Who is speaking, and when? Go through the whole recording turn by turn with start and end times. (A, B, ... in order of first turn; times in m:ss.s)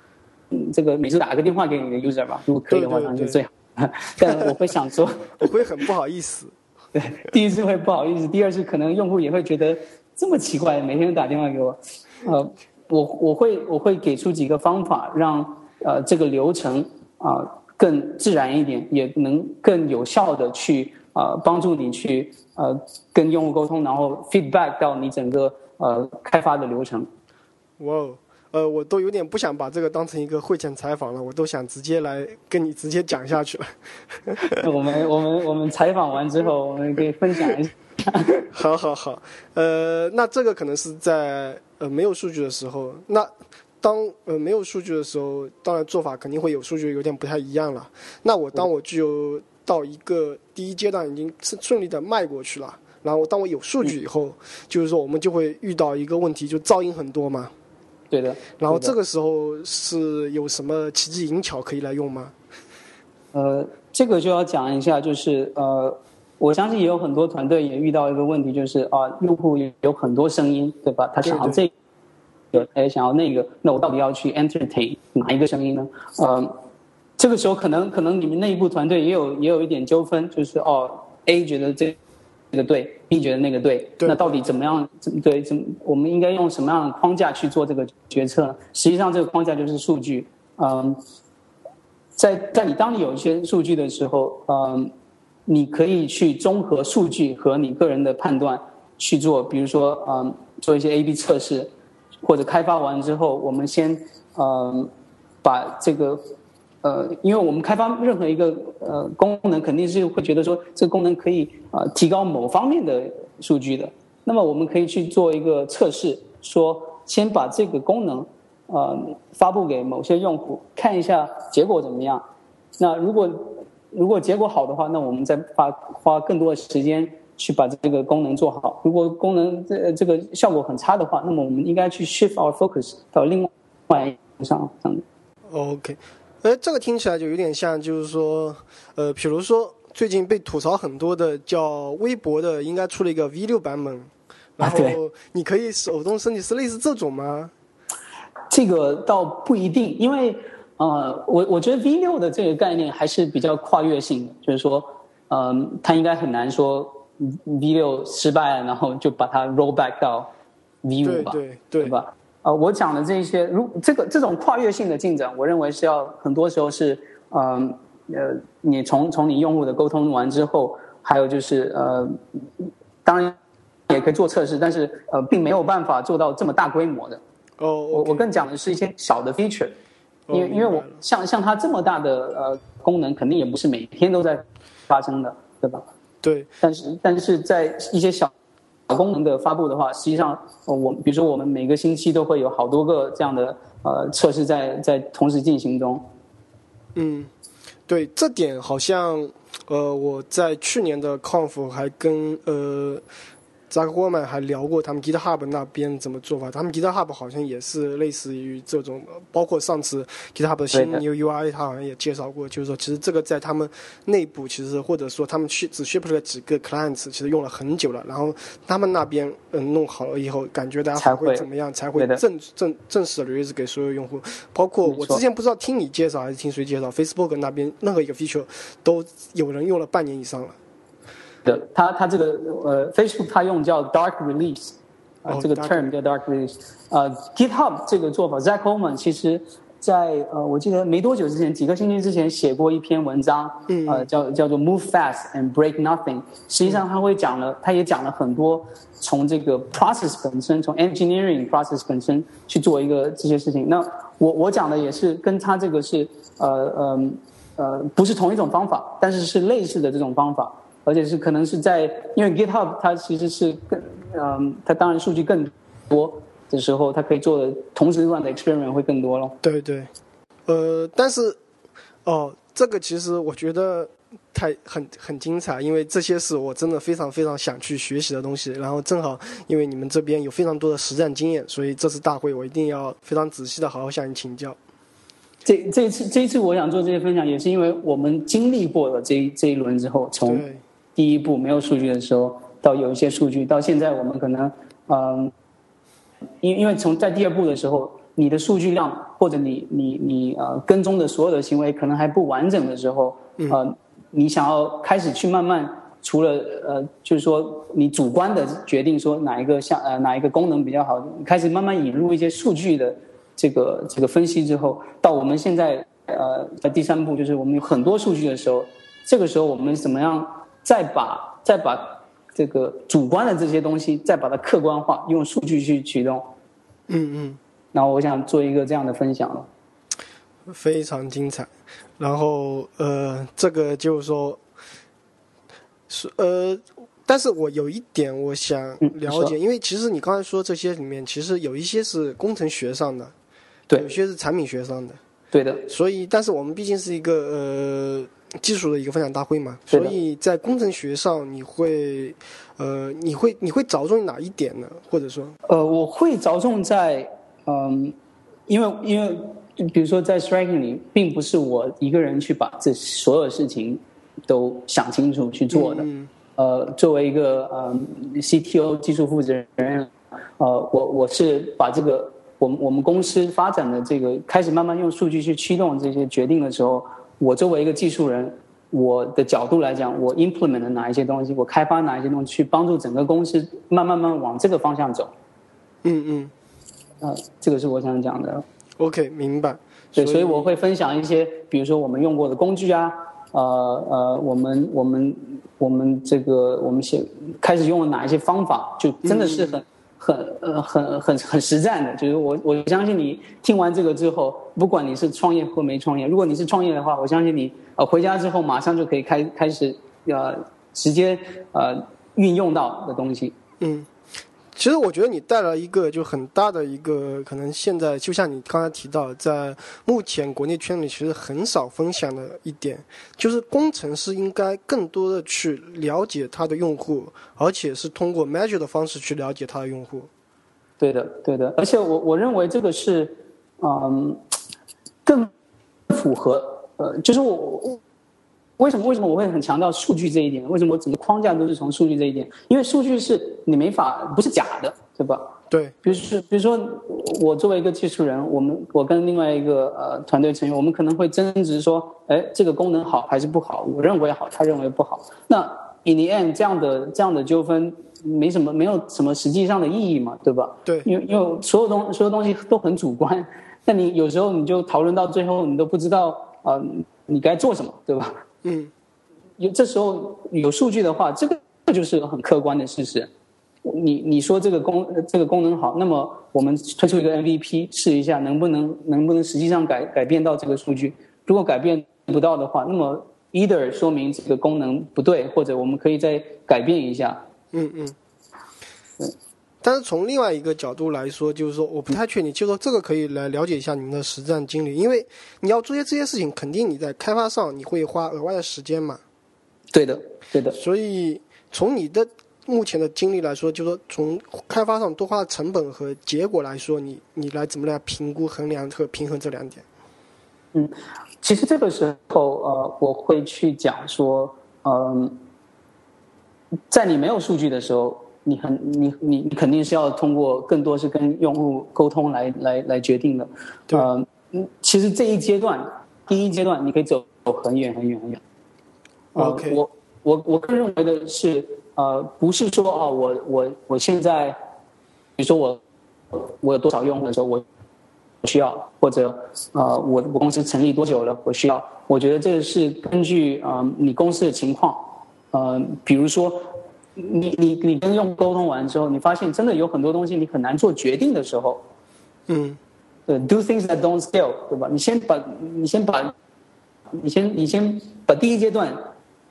0:00.5-0:05.5 A
0:02.7-0:03.4 B
0:05.4-0:06.5 B
0:07.0-0:27.1 A
0:27.8-0:34.6 B
0:34.5-0:38.4 A
0:38.5-0:57.5 B
0:58.1-0:59.0 A
0:58.6-1:02.3 B
1:03.3-1:11.7 A
1:11.2-1:11.6 B
1:12.5-1:16.5 A
1:17.2-1:22.0 A
1:22.5-1:31.0 A
1:24.0-1:24.4 B
1:32.2-1:34.9 A
1:35.5-1:41.7 A
1:42.2-1:44.9 A
1:45.4-1:46.2 A
1:46.8-2:02.2 A
2:02.8-2:15.0 A
2:15.5-2:27.5 B
2:24.6-2:25.0 A
2:28.5-2:40.3 A
2:40.8-2:52.4 A
2:41.0-2:42.0 B
2:53.0-2:53.4 A
2:53.9-2:57.2 A
2:57.6-2:58.3 B
2:57.9-2:59.8 A
3:00.3-3:01.0 B
3:00.3-3:05.8 A
3:06.2-3:06.5 B
3:06.6-3:08.3 A
3:08.9-3:16.1 A
3:17.0-3:17.3 B
3:17.9-3:23.0 B
3:23.7-3:50.6 B
3:30.7-3:31.0 A
3:41.0-3:41.5 A
3:44.8-3:45.2 A
3:51.4-4:29.4 A
3:55.3-3:56.0 B
4:03.7-4:04.1 B
4:29.4-4:29.9 B
4:30.5-4:31.4 B
4:32.1-4:44.6 B
4:45.4-4:50.4 A
4:50.2-4:50.6 B
4:51.0-4:55.3 A
4:56.4-5:26.3 A
5:26.9-5:27.4 B
5:27.7-5:29.5 A
5:30.5-5:34.4 B
5:35.9-5:43.1 B
5:38.8-5:39.4 A
5:43.8-5:45.0 B
5:45.3-5:45.7 A
5:45.7-5:55.4 B
5:49.7-5:50.0 A
5:55.5-5:58.0 A
5:58.5-6:25.1 A
6:05.5-6:06.1 B
6:25.8-6:26.3 B
6:27.0-6:28.4 A
6:28.8-6:30.5 B
6:30.0-6:53.4 A
6:39.0-6:39.6 B
6:53.6-6:53.9 B
6:54.6-7:10.1 B
7:10.8-7:14.2 A
7:15.0-7:15.3 A
7:15.9-7:17.8 A
7:18.6-7:48.1 A
7:25.5-7:25.9 B
7:48.4-7:48.7 B
7:49.4-7:53.1 A
7:53.6-8:07.2 A
8:07.5-8:08.0 B
8:09.6-8:19.0 B
8:19.7-8:20.6 A
8:20.5-8:29.6 B
8:30.5-8:35.2 A
8:36.7-8:48.2 A
8:49.1-8:54.4 A
8:49.2-8:49.6 B
8:55.2-8:57.4 A
8:58.2-9:11.6 A
9:12.3-9:12.6 B
9:13.1-9:16.1 A
9:16.9-9:18.8 A